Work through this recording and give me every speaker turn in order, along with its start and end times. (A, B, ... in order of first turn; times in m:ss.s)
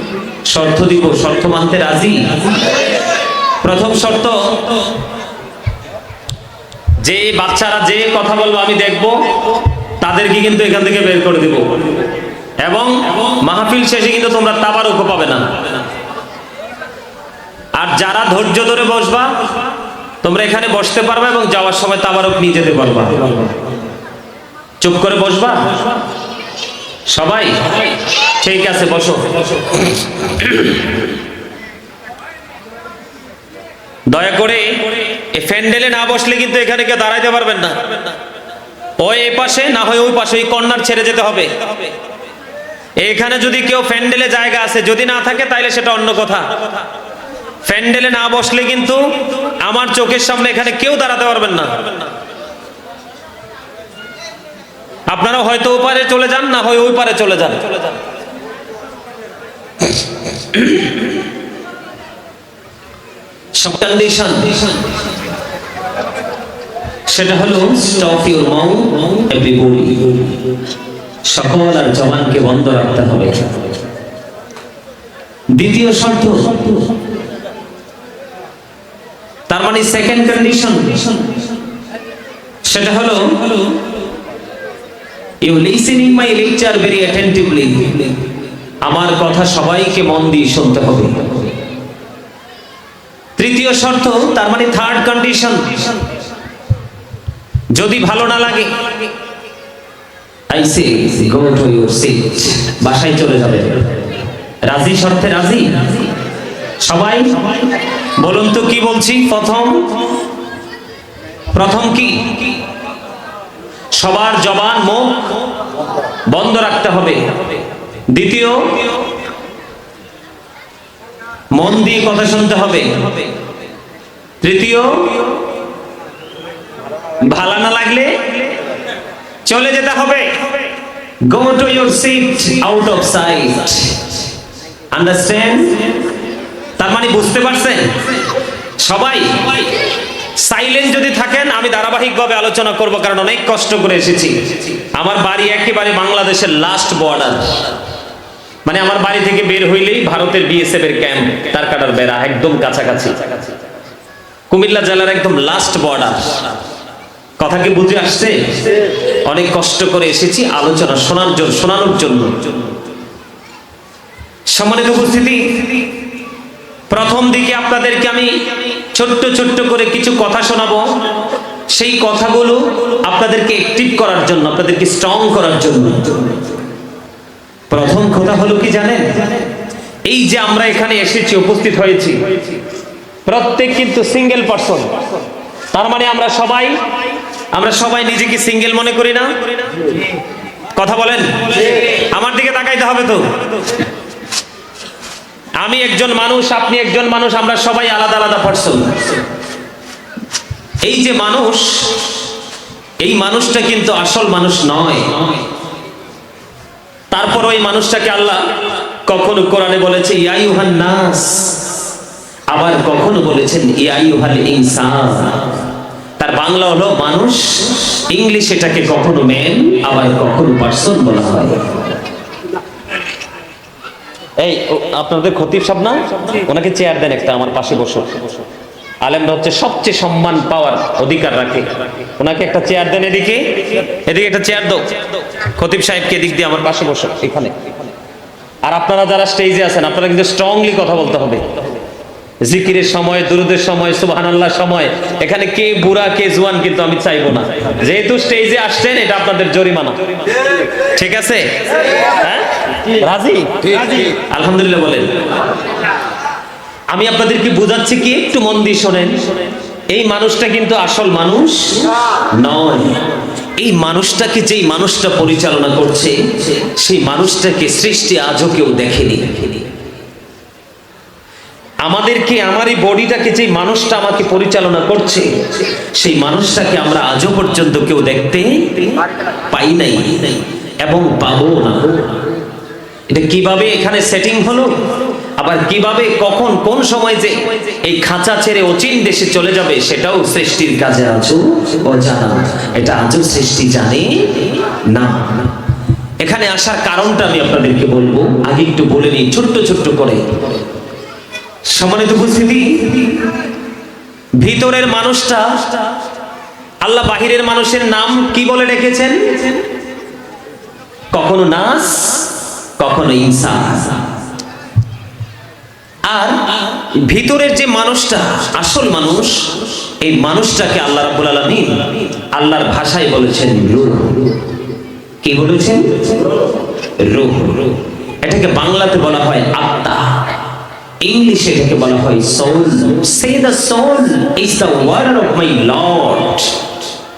0:00.5-0:02.3 A
0:03.6-0:04.8 A
0:07.0-0:12.1 A
0:12.6-0:15.9 A
0:17.8-0:19.6 A
0:20.2-0:23.6 A
0:24.8-0:25.9 A
0:27.1-0:27.7 A
0:28.4-0:31.1 A
0:34.1-0:38.2 A
0:39.0-0:41.7 A
0:43.0-0:46.6 A
0:47.6-0:51.9 A
0:55.1-0:57.8 A
1:00.5-1:00.8 A
1:03.6-1:04.9 A
1:07.1-1:10.3 A
1:11.2-1:13.7 A
1:15.6-1:16.9 A
1:19.5-1:21.3 A
1:22.6-1:23.7 A
1:25.4-1:28.2 A
1:28.8-1:31.5 A
1:33.4-1:36.0 A
1:37.7-1:39.1 A
1:40.5-1:44.1 A
1:44.7-1:46.1 A
1:46.8-1:47.6 A
1:48.2-1:49.9 A
1:51.5-1:52.6 A
1:53.9-1:55.4 A
1:56.3-1:57.3 A
1:58.1-1:59.0 A
2:01.5-2:03.1 A
2:04.4-2:05.4 A
2:07.2-2:08.5 A
2:09.4-2:10.5 A
2:11.3-2:14.0 A
2:14.9-2:15.9 A
2:16.8-2:18.0 A
2:18.8-2:19.7 A
2:20.4-2:27.7 A
2:28.6-2:33.5 A
2:34.5-2:36.6 A
2:37.4-2:42.7 A
2:44.5-2:45.8 A
2:46.9-2:51.0 A
2:51.7-2:56.3 A
2:57.7-2:59.2 A
3:00.1-3:02.2 A
3:03.3-3:04.9 A
3:05.7-3:06.8 A
3:07.5-3:09.9 A
3:10.8-3:13.3 A
3:15.6-3:19.2 A
3:20.8-3:22.1 A
3:23.0-3:25.4 A
3:27.1-3:31.7 A
3:32.5-3:35.5 A
3:36.2-3:41.7 A
3:44.4-3:48.4 A
3:49.0-3:57.6 A
3:58.6-4:01.6 A
4:02.4-4:15.1 A
4:16.9-4:19.3 A
4:19.9-4:23.0 A
4:23.6-4:29.7 A
4:31.8-4:35.3 A
4:36.0-4:39.0 A
4:39.5-4:42.2 A
4:43.1-4:44.9 A
4:45.4-4:55.5 A
4:56.2-5:00.2 A
5:01.7-5:03.3 A
5:04.4-5:05.8 A
5:06.8-5:09.6 A
5:11.1-5:14.1 A
5:16.1-5:24.4 A
5:25.2-5:26.3 A
5:27.0-5:30.2 A
5:31.0-5:36.6 A